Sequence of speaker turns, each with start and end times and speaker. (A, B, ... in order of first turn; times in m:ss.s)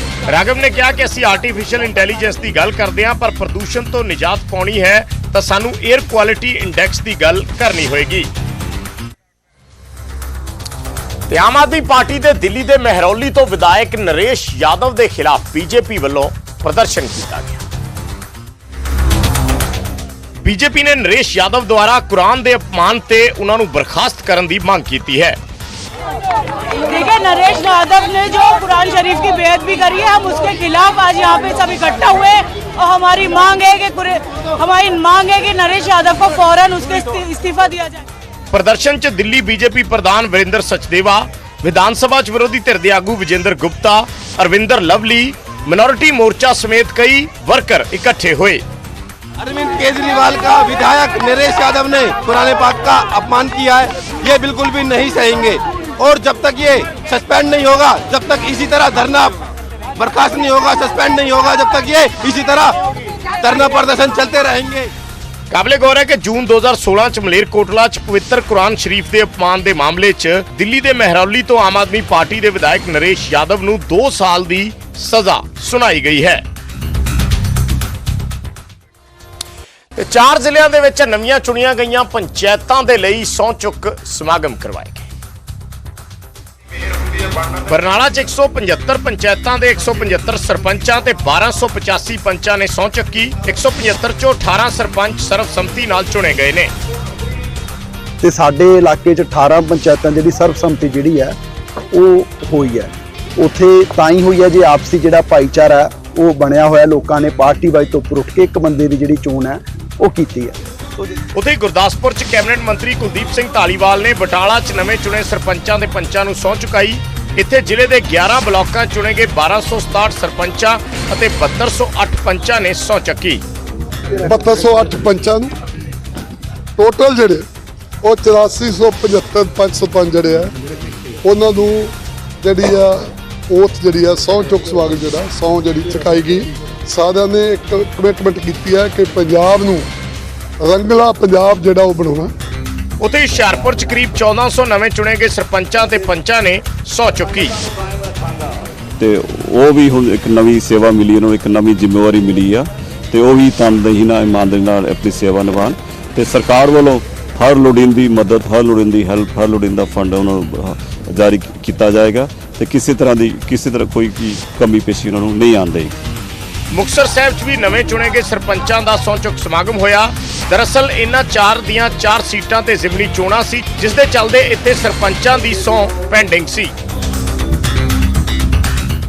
0:00.3-0:08.3 A
0:11.3-0:17.6 A
0:20.4-0:25.4 A
0:26.8-0:38.0 B
0:38.5-0:48.6 A
0:49.4-0:59.4 C
1:00.0-1:02.9 C
1:03.4-1:04.9 C
1:05.5-1:16.4 A
1:20.0-1:25.1 A
1:27.7-1:36.7 A
1:38.2-1:41.4 D
1:41.9-1:51.1 D
1:51.4-2:03.4 A
2:04.2-2:05.5 E
2:06.8-2:07.4 E
2:08.0-2:10.5 E
2:11.2-2:13.0 E
2:13.5-2:19.9 E
2:20.6-2:22.3 E
2:23.0-2:27.5 A
2:29.0-2:45.9 F
2:46.7-2:56.7 A